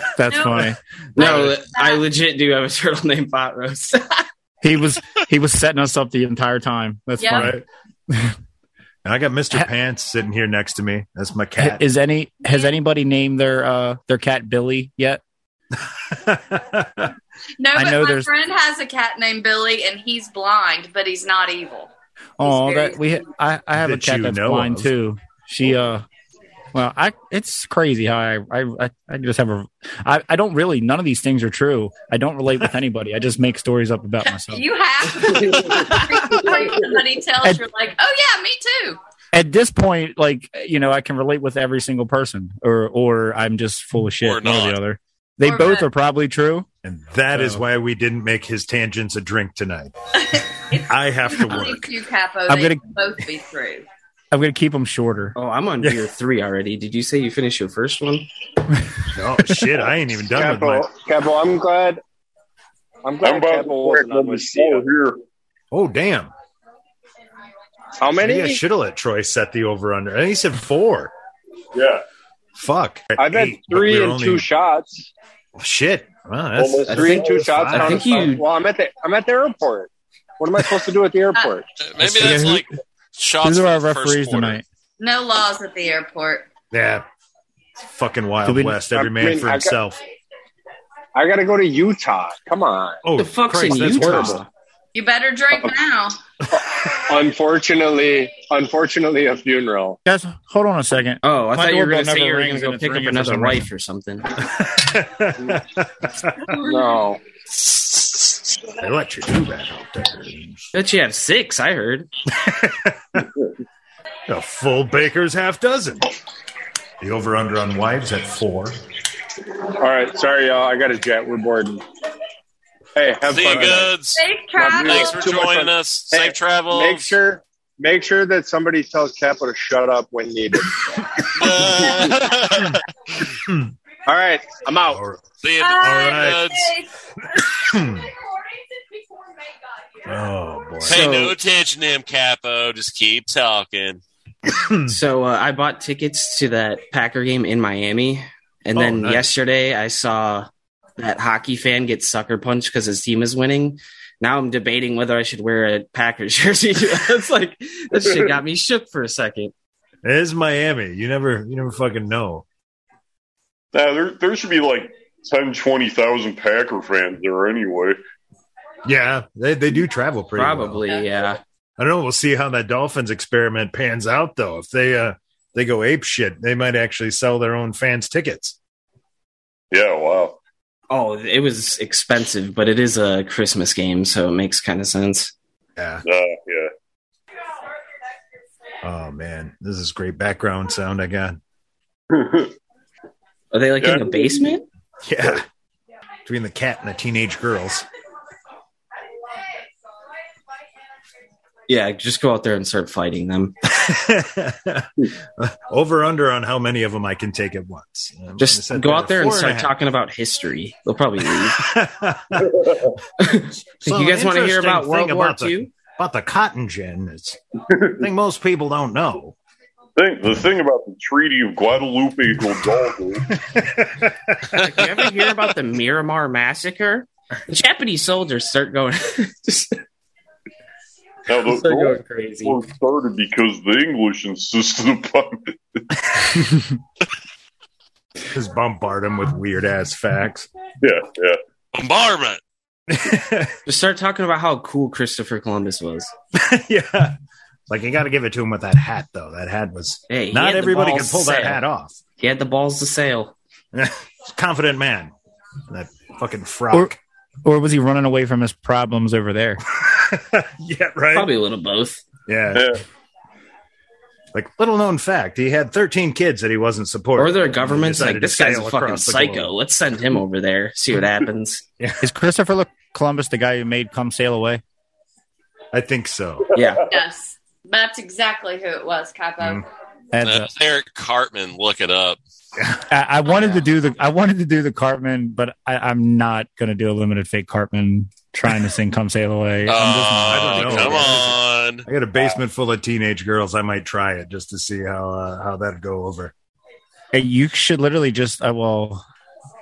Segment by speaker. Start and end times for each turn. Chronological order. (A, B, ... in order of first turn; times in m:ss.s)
0:00.1-0:00.8 A
0:00.3-0:02.0 B
0:01.1-0:04.2 C
0:04.6-0:08.3 A
0:07.2-0:07.5 B
0:07.3-0:07.6 D
0:09.0-0:11.8 D
0:11.6-0:15.2 A
0:12.5-0:12.7 B
0:15.8-0:17.1 D
0:17.6-0:23.0 B
0:17.7-0:18.3 A
0:22.4-0:26.0 A
0:23.8-0:24.9 D
0:26.7-0:34.6 A
0:34.5-0:39.0 B
0:39.3-0:46.7 A
0:44.2-0:44.8 E
0:45.4-0:45.9 B
0:46.8-0:49.9 D
0:47.3-0:47.6 A
0:50.2-0:53.9 B
0:50.8-0:51.9 D
0:52.5-0:52.8 A
0:54.3-0:55.3 A
0:55.4-0:58.3 C
0:59.1-1:00.9 D
1:00.3-1:02.0 F
1:03.0-1:04.8 F
1:03.2-1:05.2 G
1:05.7-1:06.3 D
1:08.0-1:08.6 F
1:08.2-1:11.1 D
1:11.7-1:12.0 G
1:12.5-1:14.4 D
1:13.2-1:15.1 F
1:15.6-1:18.3 D
1:16.5-1:17.5 G
1:16.8-1:21.6 F
1:16.9-1:18.4 C
1:21.8-1:24.6 E
1:22.0-1:22.7 A
1:23.4-1:24.6 A
1:25.0-1:26.5 B
1:26.7-1:27.0 D
1:27.8-1:30.0 D
1:28.4-1:28.8 A
1:28.9-1:29.8 F
1:31.1-1:33.0 F
1:33.0-1:34.4 D
1:33.2-1:34.5 C
1:34.9-1:36.2 B
1:36.5-1:40.0 F
1:40.0-1:43.7 A
1:41.2-1:44.4 C
1:44.4-1:46.5 D
1:46.4-1:46.8 B
1:46.6-1:47.2 F
1:47.5-1:50.7 D
1:50.7-1:52.1 C
1:52.3-1:53.3 D
1:54.3-1:56.1 D
1:57.0-1:58.8 D
1:59.6-2:01.8 F
2:03.0-2:04.0 F
2:03.2-2:07.1 E
2:04.2-2:05.2 B
2:04.6-2:11.2 F
2:11.3-2:12.8 E
2:13.4-2:13.7 D
2:14.0-2:15.0 F
2:14.8-2:15.2 D
2:15.4-2:16.7 E
2:15.6-2:16.9 B
2:15.8-2:16.5 D
2:17.5-2:18.1 D
2:20.0-2:21.1 D
2:20.8-2:21.4 C
2:20.8-2:24.0 E
2:24.5-2:25.0 D
2:24.9-2:39.5 C
2:28.7-2:29.3 D
2:40.0-2:42.4 D
2:43.7-2:48.0 G
2:48.8-2:50.8 D
2:50.4-2:51.4 C
2:51.8-2:58.6 D
2:59.7-3:00.4 G
3:00.9-3:05.3 C
3:05.8-3:06.0 D
3:06.0-3:06.7 G
3:08.8-3:11.4 D
3:12.1-3:12.5 G
3:13.5-3:14.6 C
3:13.8-3:14.5 G
3:15.0-3:15.4 D
3:16.2-3:17.9 D
3:21.7-3:23.5 C
3:23.6-3:29.7 D
3:28.4-3:31.7 C
3:31.3-3:32.5 D
3:32.4-3:32.9 G
3:33.2-3:35.7 C
3:33.8-3:37.4 D
3:37.7-3:38.0 G
3:38.0-3:39.4 D
3:40.0-3:43.4 G
3:43.4-3:45.1 D
3:44.6-3:49.8 C
3:51.3-3:55.8 G
3:51.3-3:52.6 C
3:58.3-4:00.5 D
4:00.8-4:01.4 G
4:01.7-4:02.4 E
4:02.9-4:03.6 D
4:03.6-4:06.1 C
4:06.3-4:07.2 D
4:07.7-4:12.0 D
4:10.1-4:11.6 C
4:12.2-4:13.3 C
4:13.7-4:15.1 D
4:15.7-4:17.0 D
4:17.4-4:19.6 A
4:19.7-4:21.3 D
4:21.1-4:22.0 C
4:22.2-4:22.7 D
4:22.5-4:22.8 G
4:24.3-4:29.5 D
4:27.2-4:31.6 C
4:32.0-4:34.6 A
4:35.7-4:36.5 D
4:36.5-4:36.8 C
4:36.9-4:39.6 B
4:40.1-4:40.5 A
4:40.2-4:42.2 E
4:42.9-4:51.1 A
4:49.6-4:51.8 E
4:50.3-4:56.3 D
4:57.1-4:59.0 A